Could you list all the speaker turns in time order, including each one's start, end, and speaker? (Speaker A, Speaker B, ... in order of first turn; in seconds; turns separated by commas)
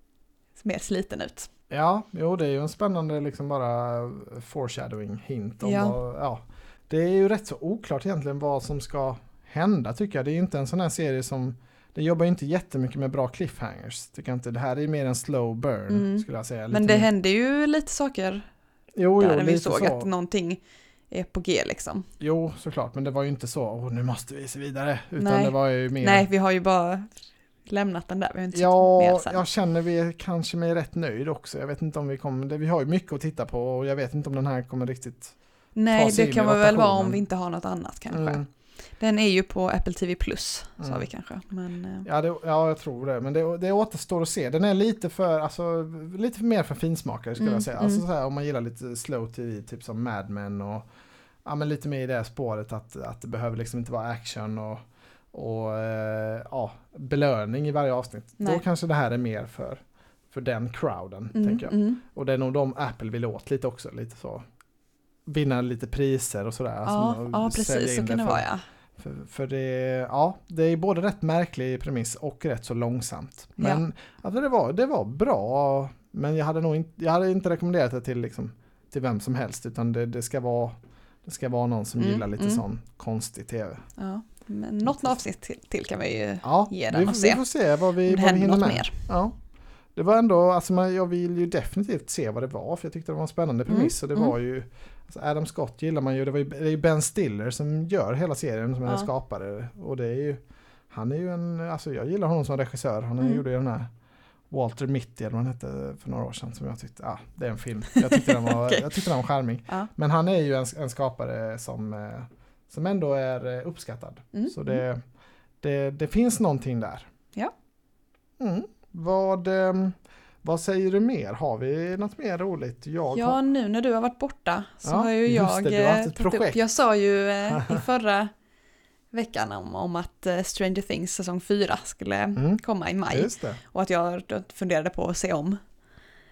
Speaker A: 0.6-1.5, Speaker B: 1.7-17.1, Speaker A: 5.6-6.0, Speaker A: 15.9-18.5, Speaker B: 19.0-20.1, Speaker A: 19.2-22.1, Speaker B: 22.2-26.3, Speaker A: 25.2-29.4, Speaker B: 28.5-35.4, Speaker A: 35.8-38.4, Speaker B: 35.9-37.2, Speaker B: 38.1-38.5, Speaker A: 39.0-42.1, Speaker B: 40.8-41.1, Speaker B: 42.0-50.9, Speaker A: 47.4-48.0, Speaker B: 51.5-54.8, Speaker B: 55.3-64.4, Speaker A: 61.4-62.0, Speaker B: 65.3-68.5, Speaker A: 66.9-68.6, Speaker B: 69.0-83.9, Speaker A: 82.0-82.6, Speaker A: 84.0-87.4, Speaker B: 84.8-85.2, Speaker B: 86.4-89.4, Speaker A: 88.0-89.1, Speaker B: 89.9-103.9, Speaker A: 93.7-94.3, Speaker B: 104.5-115.0, Speaker A: 108.0-108.9, Speaker A: 114.3-114.8, Speaker B: 115.6-117.1, Speaker B: 118.4-123.4, Speaker A: 123.1-128.3, Speaker B: 124.8-126.6, Speaker A: 129.1-135.6, Speaker B: 132.4-133.6